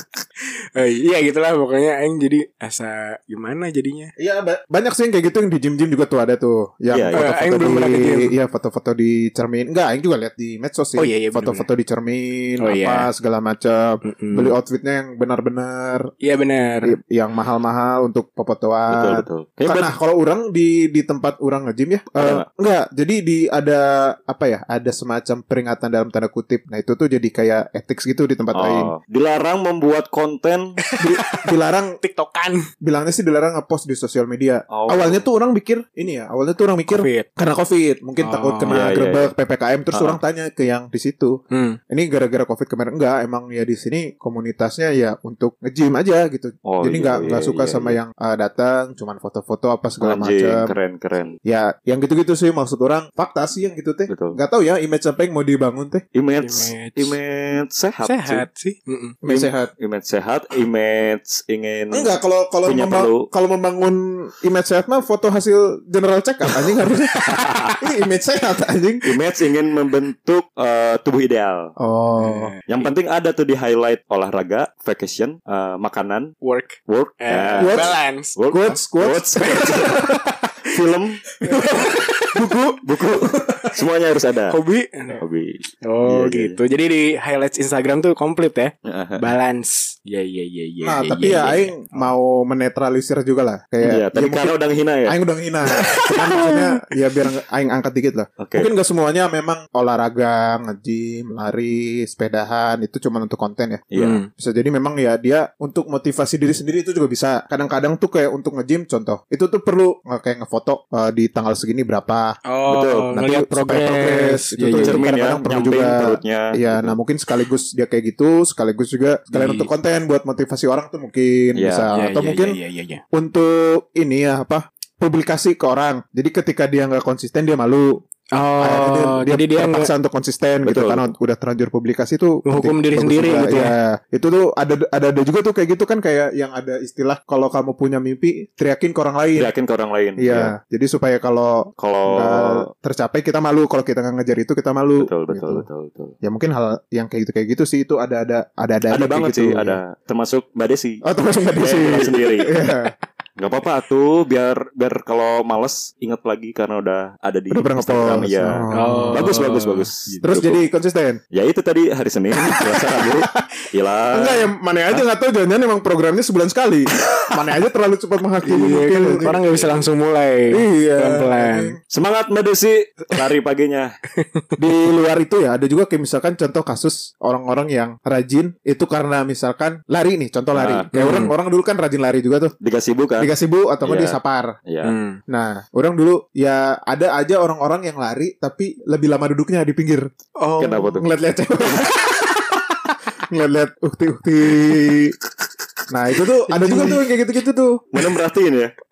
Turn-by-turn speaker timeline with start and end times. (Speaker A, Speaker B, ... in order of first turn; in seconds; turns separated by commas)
Speaker A: 0.8-4.1, Speaker B: 4.2-16.1, Speaker C: 6.9-7.2, Speaker A: 7.1-8.3, Speaker A: 11.0-11.7, Speaker A: 12.6-13.1, Speaker A: 14.0-14.5, Speaker A: 16.2-16.9, Speaker B: 16.8-28.9, Speaker C: 18.9-19.9, Speaker C: 22.2-22.4, Speaker C: 28.5-30.8, Speaker A: 30.9-31.4, Speaker B: 31.0-32.0, Speaker A: 32.0-32.6, Speaker B: 32.8-41.4, Speaker C: 34.7-35.2, Speaker A: 36.9-37.3, Speaker A: 38.2-38.8, Speaker C: 38.7-39.3, Speaker C: 39.9-40.2, Speaker A: 41.5-41.8, Speaker B: 41.9-50.7, Speaker C: 46.6-48.0, Speaker C: 50.0-51.4, Speaker B: 51.4-56.0, Speaker C: 54.1-54.4, Speaker C: 56.1-58.5, Speaker A: 56.4-57.2, Speaker A: 58.0-59.3, Speaker B: 59.2-59.7, Speaker C: 59.8-63.3, Speaker B: 61.9-67.2, Speaker A: 67.1-67.4, Speaker C: 67.3-67.7, Speaker B: 67.8-69.1, Speaker C: 69.0-71.7, Speaker B: 71.8-72.5, Speaker A: 72.2-72.8, Speaker C: 72.7-76.3, Speaker A: 76.4-78.4, Speaker C: 76.9-80.1, Speaker B: 77.6-77.9, Speaker B: 78.5-80.1, Speaker C: 80.7-81.2, Speaker A: 81.4-82.8, Speaker B: 81.5-82.7, Speaker C: 82.8-84.6, Speaker A: 84.5-85.2, Speaker C: 85.2-86.6, Speaker A: 85.8-92.0, Speaker C: 88.8-89.3, Speaker B: 90.8-112.4, Speaker C: 93.8-95.2, Speaker A: 95.8-96.6, Speaker C: 98.4-98.7, Speaker C: 103.9-104.2, Speaker A: 104.0-104.3, Speaker A: 112.5-115.0, Speaker C: 112.7-113.1, Speaker B: 113.1-122.6, Speaker C: 114.8-117.0, Speaker A: 119.3-119.7, Speaker C: 121.5-121.9, Speaker A: 121.9-123.0, Speaker B: 123.1-128.0, Speaker A: 128.3-129.9, Speaker B: 128.6-139.5, Speaker C: 130.6-131.1, Speaker A: 132.4-133.7, Speaker C: 139.3-140.5, Speaker B: 140.2-145.7, Speaker C: 141.8-142.7, Speaker C: 145.0-146.1, Speaker B: 146.2-149.8, Speaker C: 148.9-151.0, Speaker B: 151.0-152.9, Speaker C: 151.6-152.5, Speaker C: 153.4-160.6, Speaker B: 157.5-159.3, Speaker A: 158.7-160.3, Speaker B: 160.2-161.2, Speaker C: 161.3-164.5, Speaker B: 162.5-163.3, Speaker B: 164.1-169.3, Speaker A: 168.4-171.7, Speaker C: 169.2-169.9, Speaker B: 170.5-171.8, Speaker C: 171.9-173.9, Speaker A: 174.2-174.6, Speaker B: 174.6-182.5, Speaker C: 180.5-180.9, Speaker A: 180.9-181.3, Speaker C: 182.6-184.9, Speaker B: 183.2-184.5, Speaker A: 184.8-185.2, Speaker B: 185.3-190.1, Speaker A: 190.4-191.0, Speaker C: 190.6-191.1, Speaker B: 190.9-192.6, Speaker B: 193.3-195.1, Speaker B: 195.9-198.0, Speaker A: 196.5-197.0, Speaker C: 197.9-198.7